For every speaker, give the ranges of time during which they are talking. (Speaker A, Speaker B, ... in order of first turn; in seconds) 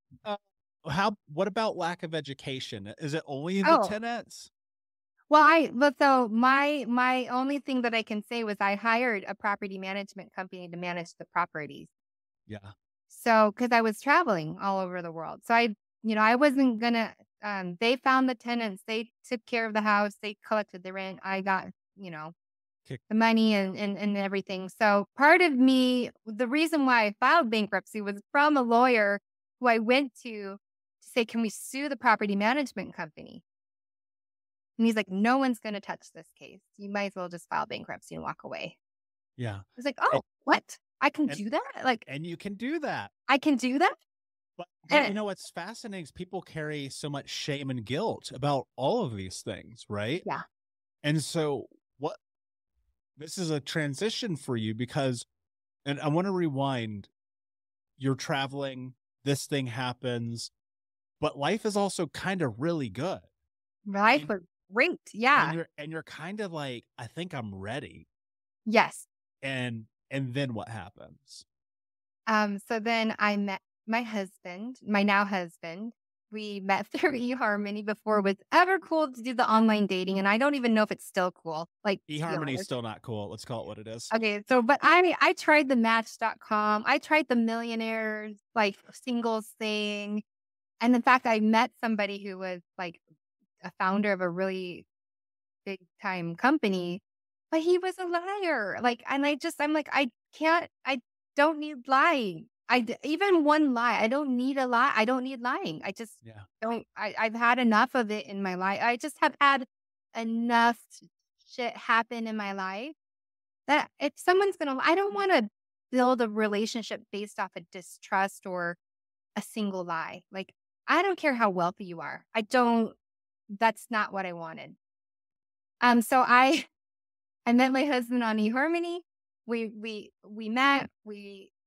Speaker A: 0.2-4.5, 12.5-12.7, 39.4-40.2, 42.0-43.1, 44.6-50.2, 51.0-52.2, 53.2-55.2, 55.9-57.1, 58.0-60.5, 61.2-63.3, 65.3-68.1, 69.4-71.4, 82.1-84.1, 106.2-106.5
Speaker B: 3.6-3.9, 5.3-11.9, 13.1-22.3, 23.1-33.4, 34.8-38.8, 39.8-42.0, 43.3-44.0, 44.9-45.1, 63.9-65.5, 68.7-69.1, 72.3-82.6, 84.1-90.2, 90.8-93.0, 93.6-94.8, 95.6-112.9, 113.7-118.8, 119.3-123.0, 123.5-124.8, 125.8-126.7, 127.5-131.5